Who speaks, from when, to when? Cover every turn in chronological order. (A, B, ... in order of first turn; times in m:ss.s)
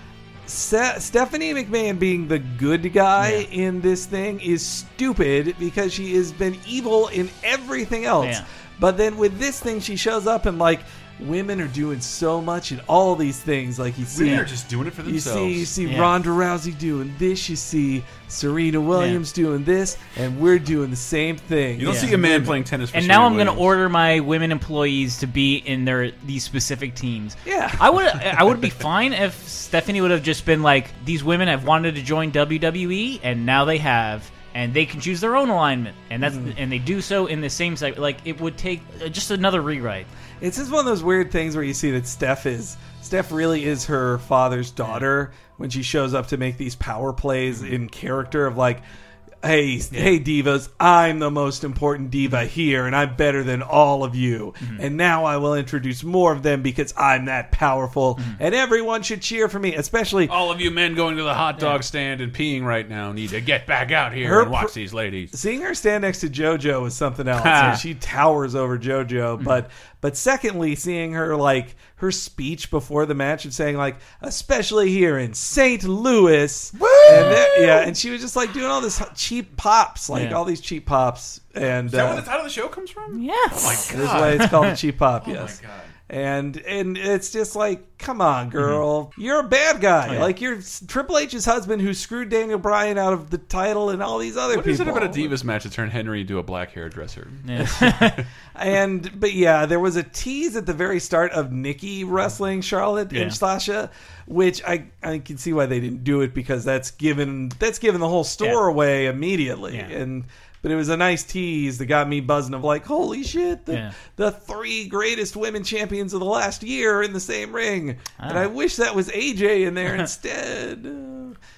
0:00.5-0:14.5 A
0:03.2-0:03.5 B
0:14.1-0:15.7 C
0:15.0-0:22.6 A
0:15.8-0:16.1 B
0:19.0-0:19.2 B
0:21.8-0:23.8 C
0:21.9-0:22.4 B
0:22.9-0:40.1 B
0:27.5-0:27.8 A
0:36.2-0:36.6 A
0:40.4-0:48.8 A
0:49.4-1:00.4 A
1:00.3-1:05.3 C
1:04.2-1:04.7 A
1:05.3-1:22.3 A
1:07.3-1:07.8 C
1:16.8-1:17.5 C
1:20.1-1:20.4 B
1:21.8-1:25.9 C
1:23.2-1:23.8 B
1:23.9-1:25.6 A
1:24.4-1:24.7 B
1:26.1-1:35.4 A
1:30.1-1:30.3 B
1:34.5-1:38.2 C
1:37.5-1:38.2 B
1:38.5-2:01.4 A
1:43.1-1:43.4 B